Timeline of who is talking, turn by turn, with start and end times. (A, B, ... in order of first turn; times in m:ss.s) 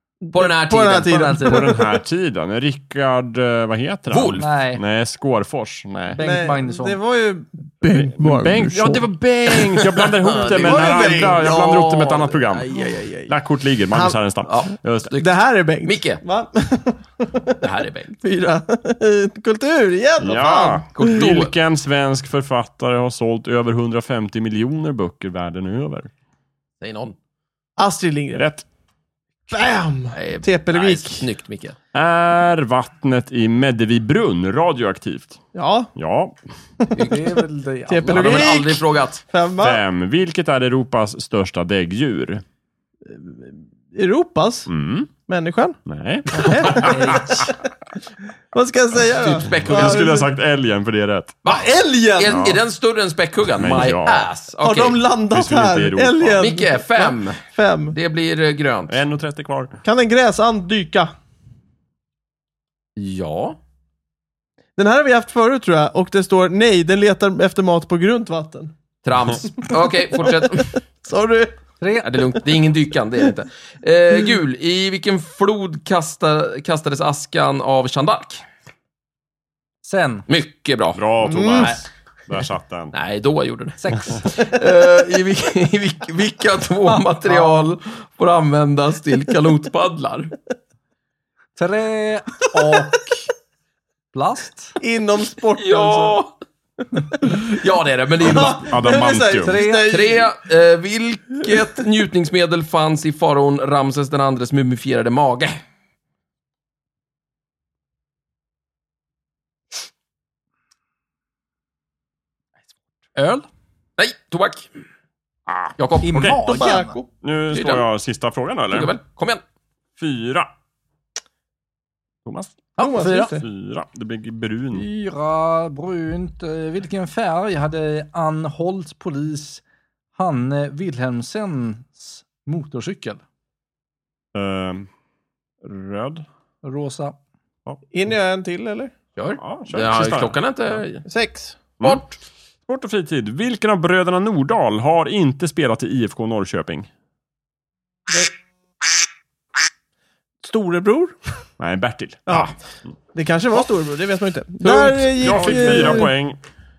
0:00.2-0:02.0 A
0:00.3-0:01.7 B
0:01.3-0:06.2 C
0:04.1-0:04.4 B
0:04.4-0:04.8 D
0:06.1-0:09.1 A
0:06.2-0:07.0 D
0:07.9-0:12.7 C
0:09.5-0:11.7 B
0:10.4-0:13.3 A
0:13.3-0:15.1 C
0:13.9-0:14.2 A
0:14.4-0:16.2 B
0:15.2-0:17.5 A
0:17.6-0:18.1 B
0:18.2-0:21.2 A
0:20.2-0:26.1 C
0:20.9-0:21.5 B
0:26.8-0:27.2 B
0:27.8-0:28.5 A
0:28.3-0:28.6 C
0:29.5-0:31.3 A
0:30.1-0:31.8 B
0:31.9-0:35.4 C
0:35.5-0:35.9 A
0:36.0-0:36.4 C
0:36.8-0:37.2 A
0:37.0-0:38.5 D
0:37.9-0:39.8 A
0:38.0-0:39.2 B
0:39.6-0:42.4 C
0:43.1-0:44.7 A
0:44.7-0:45.1 C
0:45.3-0:45.8 A
0:45.8-0:47.5 C
0:46.3-0:47.6 A
0:48.5-0:50.3 A
0:49.0-0:50.1 B
0:49.6-0:51.4 C
0:51.4-0:55.0 B
0:51.5-0:52.2 A
0:52.2-0:52.6 C
0:53.6-0:54.3 C
0:54.6-0:58.0 A
0:55.3-0:56.4 C
0:56.4-0:59.0 B
0:58.9-0:59.8 C
0:59.8-1:01.1 A
1:03.0-1:03.6 B
1:04.8-1:08.7 A
1:09.0-1:10.7 B
1:09.6-1:11.6 A
1:11.8-1:12.4 D
1:12.0-1:18.4 B
1:19.8-1:20.2 D
1:20.3-1:21.8 B
1:20.9-1:22.9 C
1:21.2-1:21.8 A
1:22.9-1:30.3 B
1:23.8-1:24.3 D
1:27.2-1:27.6 D
1:31.6-1:33.3 D
1:34.1-1:34.8 D
1:34.8-1:36.2 A
1:35.6-1:36.3 B
1:37.2-1:38.7 B
1:38.2-1:39.6 C
1:38.2-1:40.3 A
1:39.4-1:40.0 D
1:39.7-1:45.6 B
1:53.2-1:53.4 D
1:54.0-1:54.7 B
1:55.8-1:56.7 B
1:56.0-1:57.0 D
1:56.1-1:57.0 A
1:57.2-1:58.9 C
1:57.5-1:57.8 B
1:58.7-1:59.4 B
2:00.0-2:00.5 C
2:02.2-2:04.9 C
2:02.8-2:03.4 D
2:02.8-2:03.4 A
2:04.7-2:09.6 D
2:10.1-2:13.2 D
2:14.3-2:14.9 C
2:15.6-2:16.2 C
2:16.6-2:17.2 D
2:17.9-2:18.9 A
2:19.2-2:21.0 B
2:19.4-2:20.4 C
2:21.0-2:21.6 A
2:21.8-2:22.2 B
2:22.6-2:26.9 C
2:30.4-2:31.4 A
2:31.6-2:32.9 C
2:32.3-2:32.5 A
2:33.1-2:36.1 A
2:34.6-2:36.4 C